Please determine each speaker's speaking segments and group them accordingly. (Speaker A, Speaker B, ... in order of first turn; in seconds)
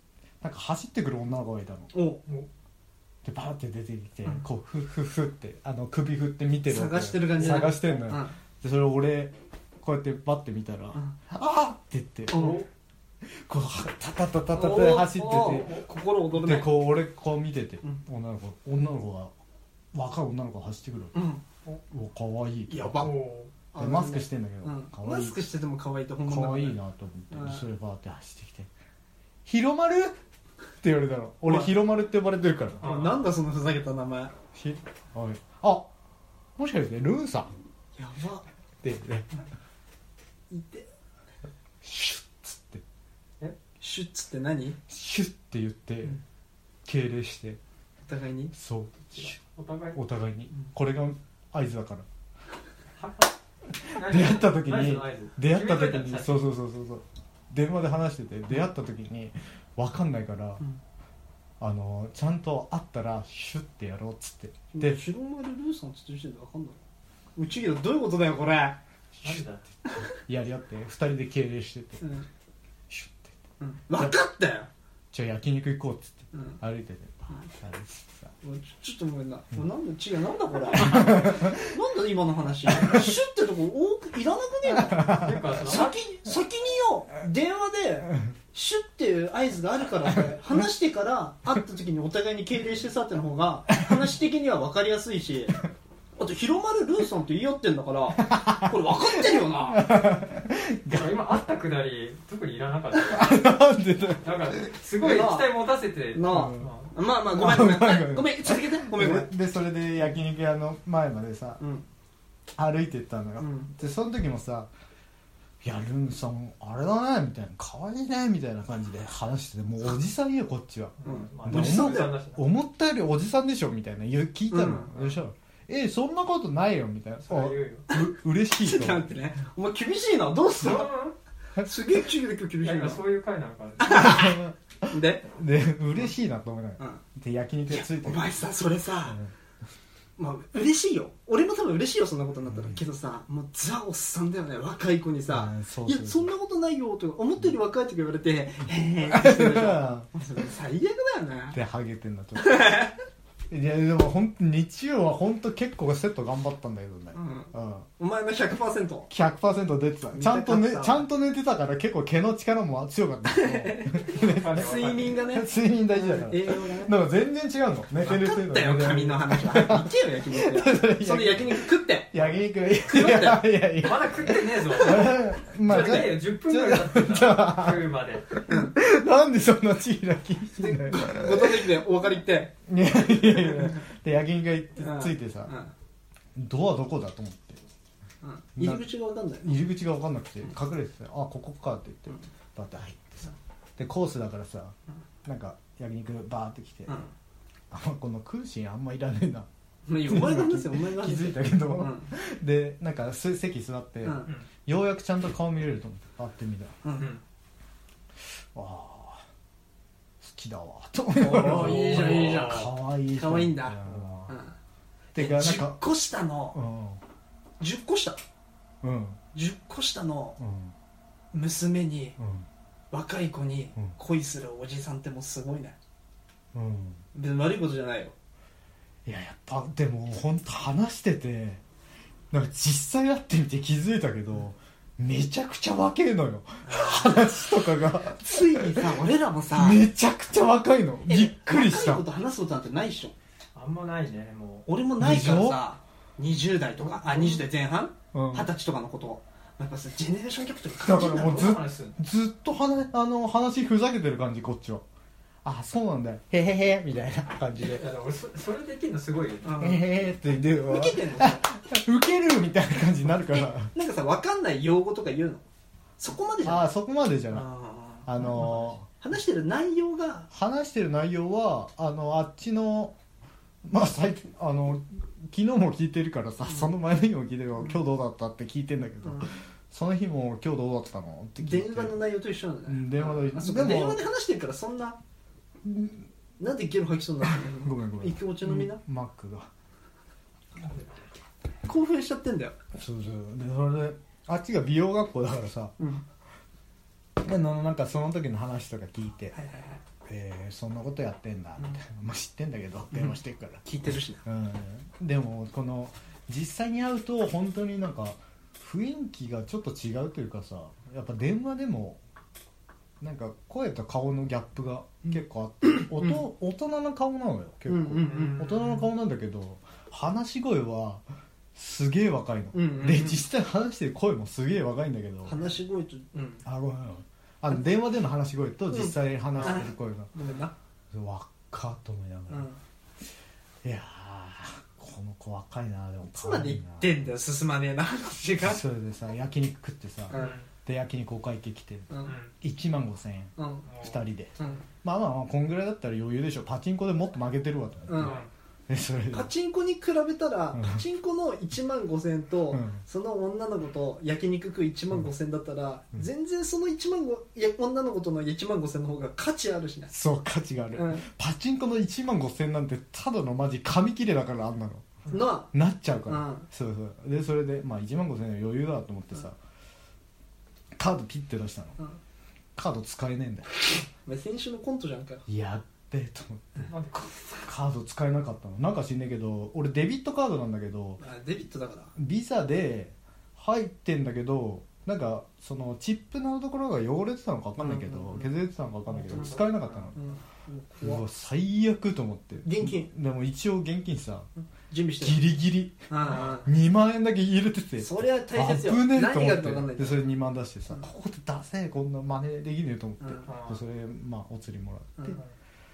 Speaker A: 0.4-1.9, 3.2-12.5, 13.2-15.8, 16.3-19.3, 19.9-21.1, 21.9-23.1, 23.8-25.4, 26.2-28.7, 29.4-30.2, 30.8-32.9, 34.5-35.9, 36.6-37.5, 38.8-39.3, 41.8-42.8, 44.9-46.2, 46.8-47.6, 48.5-49.4, 49.9-52.0, 53.8-60.6, 61.6-65.0, 70.1-72.0, 72.9-73.4, 75.1-78.3, 80.7-81.7, 82.7-83.1, 84.7-85.7, 98.2-101.2, 103.1-104.7, 106.2-106.7, 107.3-111.6, 112.5-114.7, 115.6-129.1, 133.8-138.3, 142.5-142.8, 145.3-146.3, 149.0-150.1, 151.5-152.8, 153.5-157.9, 159.1-181.8, 182.7-185.5, 186.3-187.6, 188.6-188.9, 189.4-197.0, 197.7-199.5, 200.1-206.8, 208.5-209.2, 210.2-214.3, 215.1-215.8, 216.5-217.0, 218.8-219.2, 220.4-220.7, 222.2-222.5, 226.5-227.0, 229.0-231.6, 232.3-239.0, 239.5-242.0, 245.0-245.6, 246.8-247.4, 248.1-248.5, 250.8-254.8, 255.4-257.8, 259.6-263.7, 266.4-267.5, 268.1-268.8, 270.3-272.9, 273.6-282.0, 282.7-284.0, 285.6-286.1, 287.2-289.5, 292.7-295.8, 297.2-299.4, 300.0-303.6, 304.2-312.0, 313.0-321.0, 321.5-325.3, 326.4-330.1, 330.9-332.5, 333.6-337.1, 338.4-349.3, 350.5-350.8, 352.5-352.8, 359.9-369.4, 370.8-371.8, 372.6-373.6, 375.3-376.7, 377.4-381.0, 381.9-390.0, 390.8-394.3, 395.0-405.2
Speaker B: 1.9-2.2, 6.7-8.3, 12.3-12.6, 14.5-16.7, 21.1-21.4, 22.7-23.1, 23.7-26.8, 27.3-27.6, 31.4-31.7, 32.8-34.3, 38.0-38.4, 40.5-40.9, 43.8-44.8, 48.0-48.5, 64.7-66.8, 67.3-68.8, 72.0-72.3, 73.6-74.7, 76.3-76.6, 78.4-95.6, 96.2-99.9, 105.0-109.3, 111.6-111.8, 113.4-113.7, 121.0-122.2, 124.5-124.9, 128.6-130.9, 131.6-133.0, 133.8-135.3, 137.7-139.2, 140.2-151.6, 152.4-153.0, 157.1-159.1, 160.1-161.0, 163.3-166.9, 168.0-173.5, 174.6-176.2, 178.5-178.8, 180.5-182.5, 183.1-183.8, 184.8-185.7, 188.2-189.5, 196.9-197.1, 199.9-202.1, 204.0-204.3, 206.8-207.2, 211.2-214.6, 215.1-216.6, 217.6-218.2, 219.3-220.4, 221.3-222.2, 222.9-225.8, 227.1-228.1, 238.2-239.8, 241.1-243.1, 244.7-251.6, 259.4-259.9, 260.5-261.5, 263.3-265.4, 266.0-266.7, 267.3-270.3, 279.0-279.3, 281.4-285.0, 286.4-288.8, 291.6-292.6, 299.3-299.8, 302.9-304.2, 315.1-316.2, 317.7-318.5, 322.5-323.2, 325.2-326.4, 328.7-330.5, 332.3-332.6, 336.1-338.6, 340.1-340.4, 341.9-342.1, 343.4-343.7, 344.4-344.6, 347.9-348.2, 349.1-359.9, 360.7-361.1, 365.1-365.5, 366.1-366.5, 374.0-375.2, 381.0-381.9, 387.6-388.3, 389.9-391.0, 392.4-392.9, 394.4-395.2, 395.9-396.5, 397.8-400.1, 403.0-403.3
Speaker C: 7.5-7.8, 12.3-12.7, 15.4-15.8, 23.0-23.5, 32.8-33.2, 49.1-50.0, 53.0-53.3, 53.8-56.4, 69.2-69.7, 85.0-86.0, 100.9-103.5, 104.2-106.9, 121.0-122.5, 124.7-125.2, 127.2-127.9, 130.6-131.1, 132.6-134.2, 164.1-165.2, 173.8-178.3, 211.3-212.7, 236.6-237.2, 243.5-244.7, 251.0-252.0, 257.6-259.8, 290.6-290.9, 318.1-318.9, 340.1-340.5, 342.0-342.3, 343.7-344.5, 348.0-348.3, 376.7-377.5, 388.9-389.9, 403.2-403.6